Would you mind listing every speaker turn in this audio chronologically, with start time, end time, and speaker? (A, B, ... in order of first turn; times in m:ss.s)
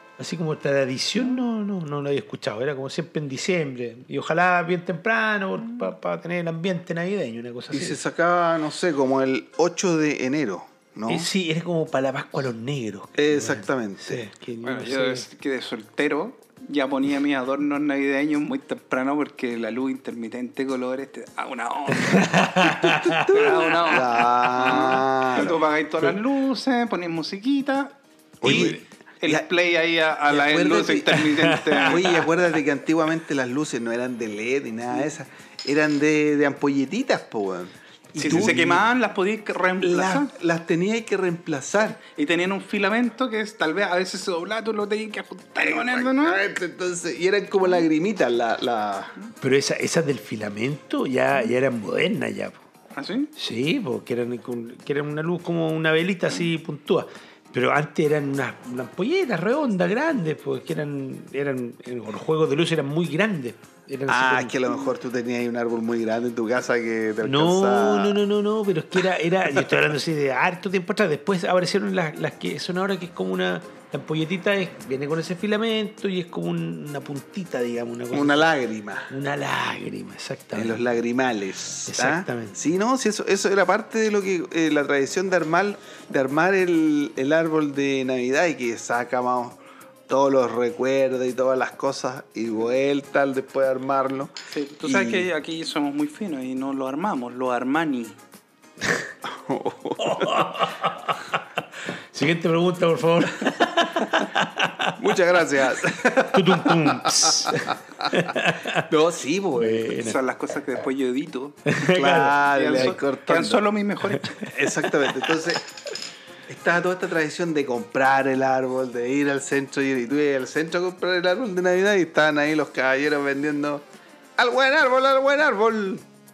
0:00.2-0:08.0 A
0:07.7-0:11.3 B
0:11.1-0:15.2 A
0:13.2-0:14.3 B
0:14.6-0:22.7 C
0:21.9-0:23.6 A
0:22.8-0:25.6 B
0:23.3-0:32.3 C
0:28.4-0:29.4 B
0:28.4-0:28.8 A
0:30.3-0:31.3 B
0:31.4-0:32.2 A
0:31.8-0:38.7 B
0:38.1-0:38.8 A
0:38.2-0:40.3 C
0:39.8-0:42.0 B
0:42.0-0:46.4 C
0:45.6-0:49.2 B
0:49.4-0:52.6 A
0:53.0-0:53.3 C
0:53.4-1:04.6 A
1:04.1-1:08.2 B
1:07.2-1:18.5 A
1:18.1-1:19.1 B
1:19.1-1:20.8 A
1:20.5-1:34.3 B
1:21.9-1:22.6 A
1:34.5-1:38.2 C
1:34.8-1:35.3 B
1:39.2-1:40.7 B
1:40.0-1:41.4 A
1:42.1-1:45.0 A
1:45.0-1:49.9 B
1:46.2-1:48.9 A
1:49.6-1:50.2 A
1:49.9-1:51.7 C
1:51.7-1:52.9 A
1:51.9-1:53.6 B
1:52.3-1:54.6 C
1:54.5-1:55.6 B
1:56.5-2:03.8 B
2:04.4-2:06.0 B